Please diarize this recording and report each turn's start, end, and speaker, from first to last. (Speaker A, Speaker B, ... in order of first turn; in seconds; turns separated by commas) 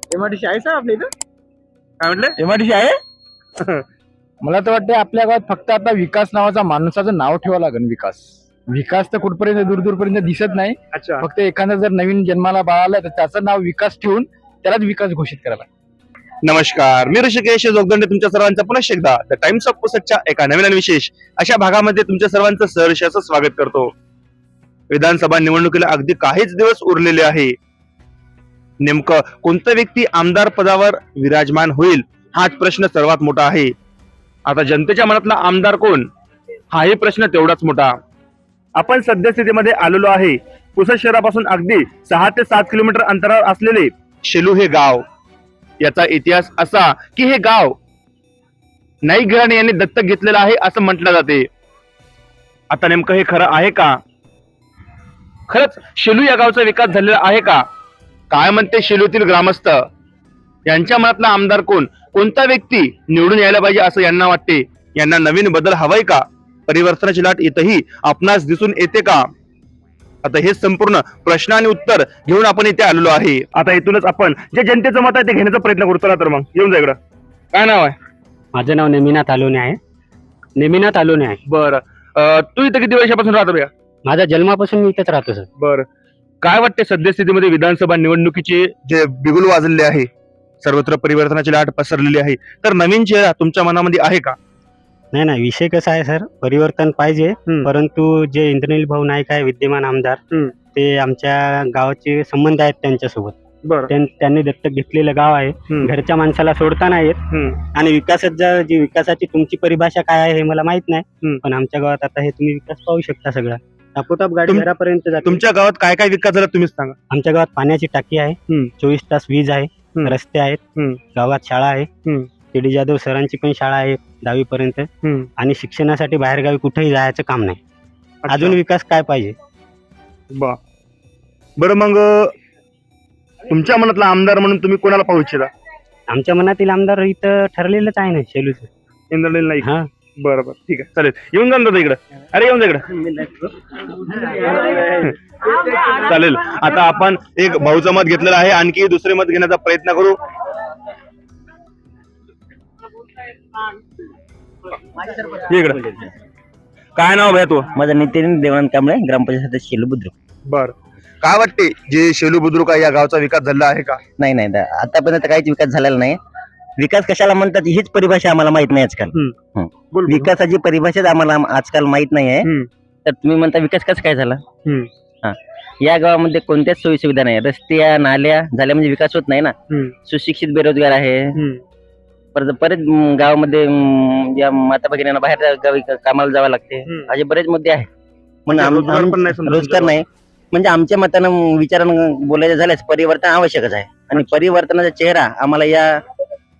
Speaker A: 0.1-1.1, Speaker B: 2.0-2.3, Speaker A: 2.4-2.9, Speaker A: 4.4-15.7, Speaker B: 10.9-11.2, Speaker B: 16.4-23.9, Speaker B: 24.9-27.5, Speaker B: 28.8-33.7, Speaker B: 34.5-36.1, Speaker B: 36.7-37.9, Speaker B: 38.8-45.0, Speaker B: 45.8-47.8, Speaker B: 49.1-51.5, Speaker B: 52.7-54.0, Speaker B: 55.5-57.6, Speaker B: 58.3-59.8, Speaker B: 60.7-69.2, Speaker B: 70.2-77.0, Speaker B: 77.5-77.9, Speaker C: 78.5-79.8, Speaker C: 80.5-81.4, Speaker B: 81.5-83.7, Speaker C: 84.0-85.5, Speaker B: 85.6-85.8, Speaker B: 86.4-90.1, Speaker B: 90.6-94.3, Speaker C: 95.1-100.2, Speaker C: 100.7-103.3, Speaker B: 103.6-103.9, Speaker C: 103.9-115.4, Speaker B: 107.3-107.6, Speaker B: 115.2-116.9, Speaker C: 117.1-120.6, Speaker C: 121.1-121.9, Speaker C: 122.5-127.6, Speaker B: 128.3-128.6, Speaker C: 128.3-129.3, Speaker B: 131.6-132.3, Speaker B: 133.5-135.5, Speaker C: 136.1-138.7, Speaker B: 139.1-139.7, Speaker C: 139.6-139.9, Speaker B: 140.2-142.8, Speaker B: 144.9-150.2, Speaker B: 155.5-155.8, Speaker B: 157.0-157.7, Speaker D: 157.8-160.1, Speaker B: 160.5-164.0, Speaker D: 164.2-166.2, Speaker D: 166.8-172.5, Speaker B: 169.9-170.3, Speaker D: 173.1-174.4, Speaker D: 175.2-179.5, Speaker D: 180.1-181.3, Speaker B: 181.3-181.6, Speaker D: 182.3-187.9, Speaker D: 188.5-195.9, Speaker B: 188.5-189.9